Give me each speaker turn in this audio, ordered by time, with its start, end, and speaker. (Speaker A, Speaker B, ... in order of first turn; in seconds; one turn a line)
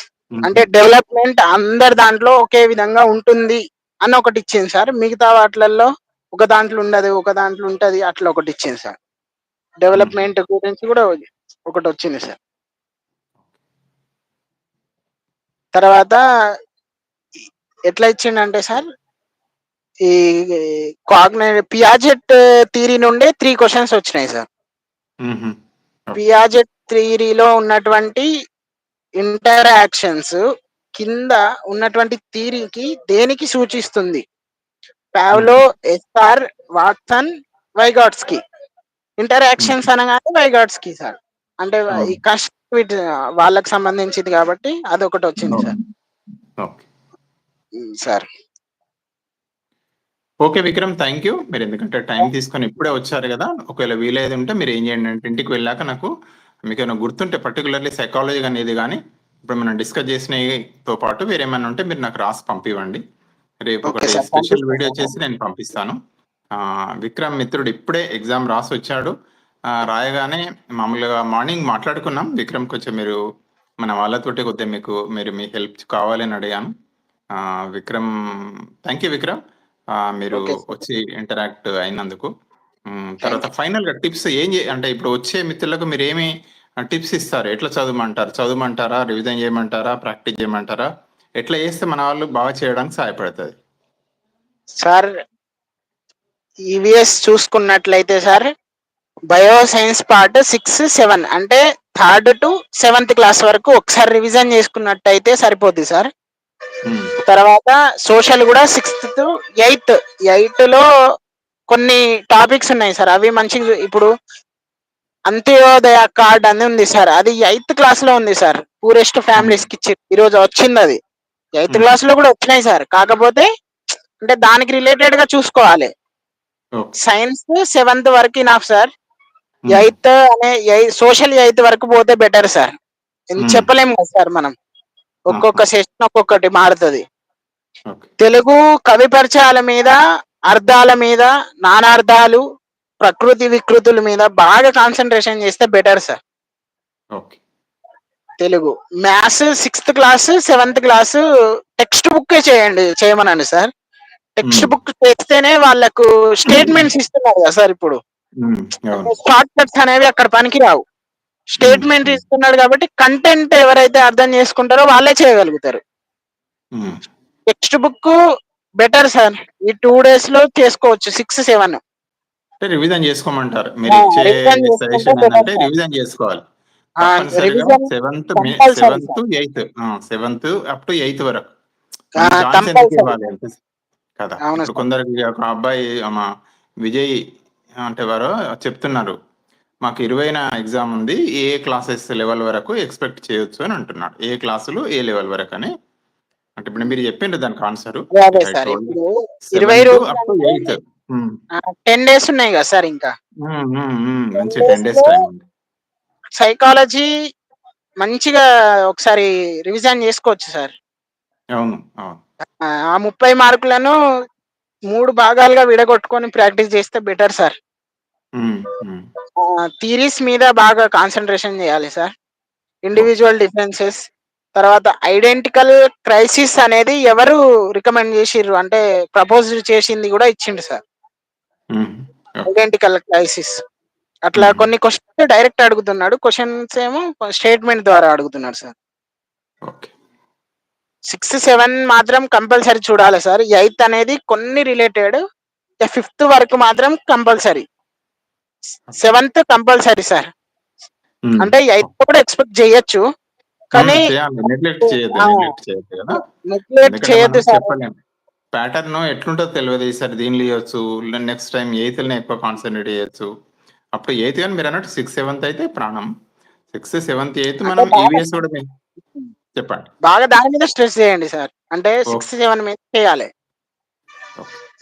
Speaker A: 0.3-0.7
Speaker B: 0.4-8.9
Speaker B: 9.8-11.0
Speaker A: 9.9-10.3
Speaker B: 11.7-12.4
Speaker B: 15.8-16.2
Speaker B: 17.9-18.9
Speaker B: 20.1-24.5
Speaker A: 25.2-25.5
Speaker B: 26.2-28.3
Speaker B: 29.2-30.4
Speaker B: 31.0-34.2
Speaker B: 35.2-37.3
Speaker B: 37.8-38.4
Speaker B: 39.2-45.7
Speaker A: 45.5-45.8
Speaker B: 47.8-48.2
Speaker A: 50.4-56.1
Speaker A: 56.7-63.0
Speaker A: 63.7-66.0
Speaker B: 63.9-65.1
Speaker A: 66.6-69.1
Speaker A: 69.8-73.2
Speaker A: 73.8-76.7
Speaker A: 77.8-78.1
Speaker A: 78.9-79.4
Speaker A: 80.1-82.3
Speaker B: 80.3-80.6
Speaker A: 82.9-86.3
Speaker A: 86.9-90.9
Speaker A: 91.4-93.6
Speaker B: 94.8-95.1
Speaker B: 96.7-98.5
Speaker B: 99.3-106.1
Speaker A: 106.9-107.1
Speaker B: 107.3-110.8
Speaker B: 111.7-114.1
Speaker B: 115.3-121.0
Speaker A: 119.4-119.7
Speaker B: 121.6-123.5
Speaker A: 121.7-122.0
Speaker B: 124.2-125.9
Speaker B: 127.0-128.9
Speaker A: 129.7-129.9
Speaker B: 129.7-132.7
Speaker B: 133.3-134.5
Speaker A: 133.4-133.7
Speaker B: 135.3-137.0
Speaker A: 135.3-135.6
Speaker B: 138.2-140.0
Speaker B: 140.5-142.4
Speaker B: 143.0-146.2
Speaker B: 148.4-151.2
Speaker B: 151.8-153.7
Speaker B: 154.4-158.0
Speaker A: 154.5-154.7
Speaker A: 156.5-156.8
Speaker A: 158.4-159.1
Speaker B: 159.0-160.8
Speaker B: 161.6-165.8
Speaker A: 161.6-162.2
Speaker B: 167.5-168.2
Speaker B: 168.8-171.8
Speaker A: 172.6-176.4
Speaker B: 173.9-175.7
Speaker B: 177.0-179.2
Speaker A: 177.0-181.5
Speaker B: 182.2-183.2
Speaker A: 182.2-183.6
Speaker A: 184.2-186.2
Speaker B: 184.4-184.8
Speaker A: 186.8-187.1
Speaker A: 187.9-189.2
Speaker A: 189.8-195.7
Speaker A: 196.6-199.0
Speaker B: 198.1-200.8
Speaker A: 199.5-201.3
Speaker B: 201.6-203.1
Speaker A: 203.5-205.4
Speaker B: 204.4-205.2
Speaker B: 206.4-207.1
Speaker B: 208.0-210.7
Speaker A: 211.6-212.2
Speaker B: 213.0-213.9
Speaker B: 214.9-217.5
Speaker A: 218.4-219.1
Speaker B: 219.8-222.1
Speaker B: 222.9-224.0
Speaker B: 224.6-230.8
Speaker A: 231.8-232.5
Speaker B: 232.5-233.5
Speaker B: 234.3-238.7
Speaker A: 234.4-234.7
Speaker B: 241.1-245.2
Speaker B: 245.9-247.6
Speaker B: 249.0-250.3
Speaker A: 251.3-251.9
Speaker B: 251.4-253.0
Speaker B: 253.7-254.1
Speaker A: 253.8-256.2
Speaker B: 254.9-255.5
Speaker B: 256.5-257.7
Speaker A: 256.9-257.9
Speaker A: 258.5-263.3
Speaker A: 264.0-266.1
Speaker A: 266.7-268.6
Speaker B: 267.7-268.2
Speaker A: 269.6-269.9
Speaker B: 270.1-273.3